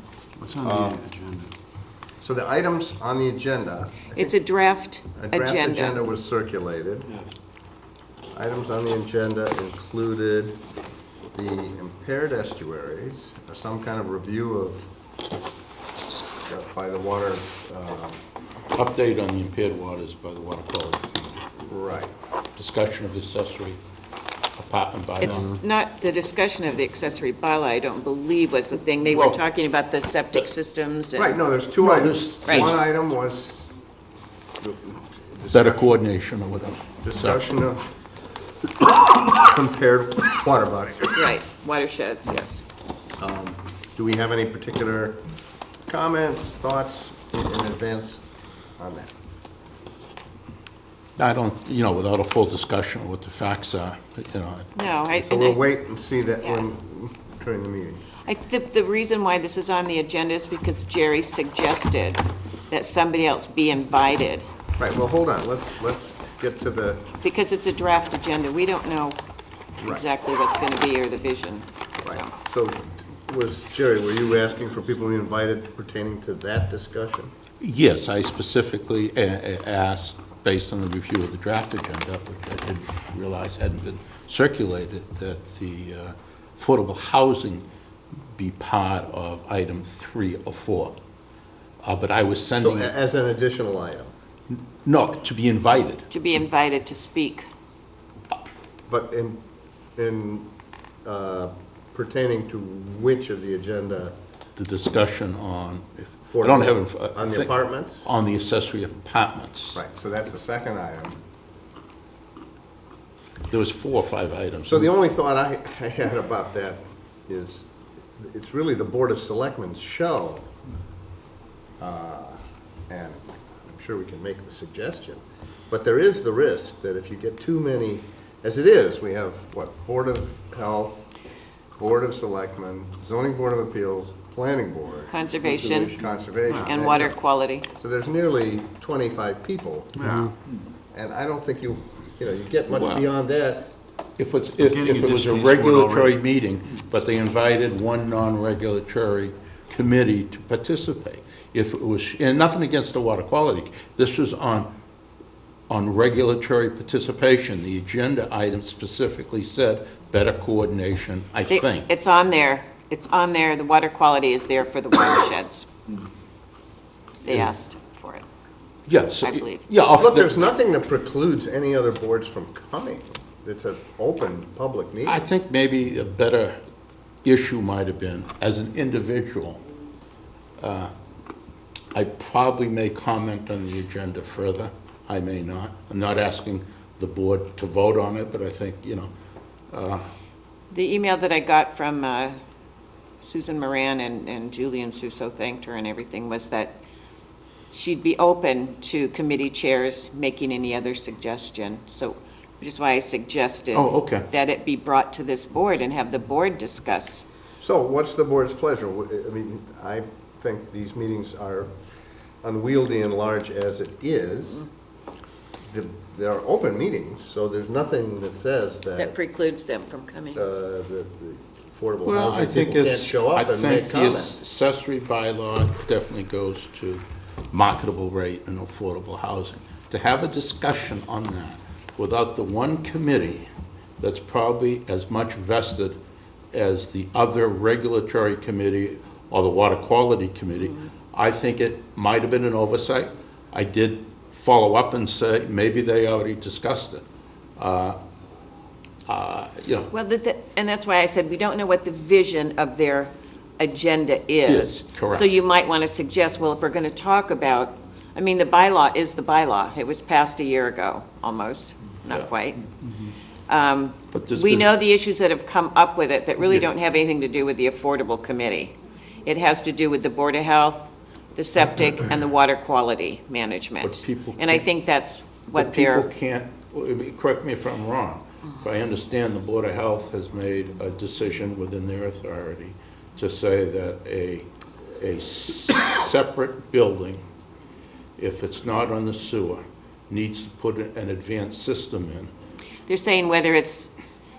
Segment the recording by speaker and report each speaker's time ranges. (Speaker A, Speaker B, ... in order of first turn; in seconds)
Speaker A: 0.4-1.5, 140.0-140.3, 144.6-146.1
Speaker B: 0.6-1.0, 2.2-4.3, 5.1-7.1, 8.3-10.6, 11.3-14.8, 16.4-18.2, 21.6-22.1, 31.1-33.7, 34.6-36.0, 37.0-37.9, 39.3-41.3, 43.2-45.2, 45.9-48.2, 48.8-49.1, 55.2-58.0, 64.8-67.1, 72.0-77.3, 92.6-94.1, 98.9-99.4, 100.0-100.5, 101.0-104.1, 106.3-108.1, 109.7-111.2, 114.7-120.5, 121.8-131.0, 131.8-137.2, 137.7-140.2, 140.9-143.7, 170.0-175.2, 207.6-211.7, 212.4-214.7, 215.7-219.1, 220.3-224.4
Speaker C: 4.1-6.0, 25.2-31.4, 32.5-32.7, 41.1-42.6, 54.7-55.6, 58.2-64.5, 67.2-69.2, 69.8-72.3, 96.1-97.5, 135.1-135.9, 136.6-137.7, 161.5-165.7, 167.2-168.2, 169.2-169.7, 190.7-192.4, 193.2-196.8, 197.7-207.2, 219.0-220.4, 249.9-262.6, 263.5-276.1, 292.9-293.9
Speaker D: 18.7-21.2, 22.6-23.8, 24.6-25.6, 29.1-29.4, 31.8-32.8, 35.5-37.4, 51.2-54.8, 77.6-87.6, 88.3-91.0, 91.8-92.9, 94.5-96.0, 104.5-109.8, 113.5-114.9, 142.7-143.0, 144.2-154.7, 155.7-161.9, 168.9-170.5, 175.0-176.6, 177.2-179.6, 180.6-180.9, 181.9-189.1, 189.7-190.0, 203.7-204.2, 222.0-233.4, 234.0-236.0, 236.5-247.0, 247.6-248.0, 249.1-249.9, 254.5-255.3, 264.1-264.7, 273.8-274.7, 275.5-284.5, 285.0-287.2, 288.2-292.3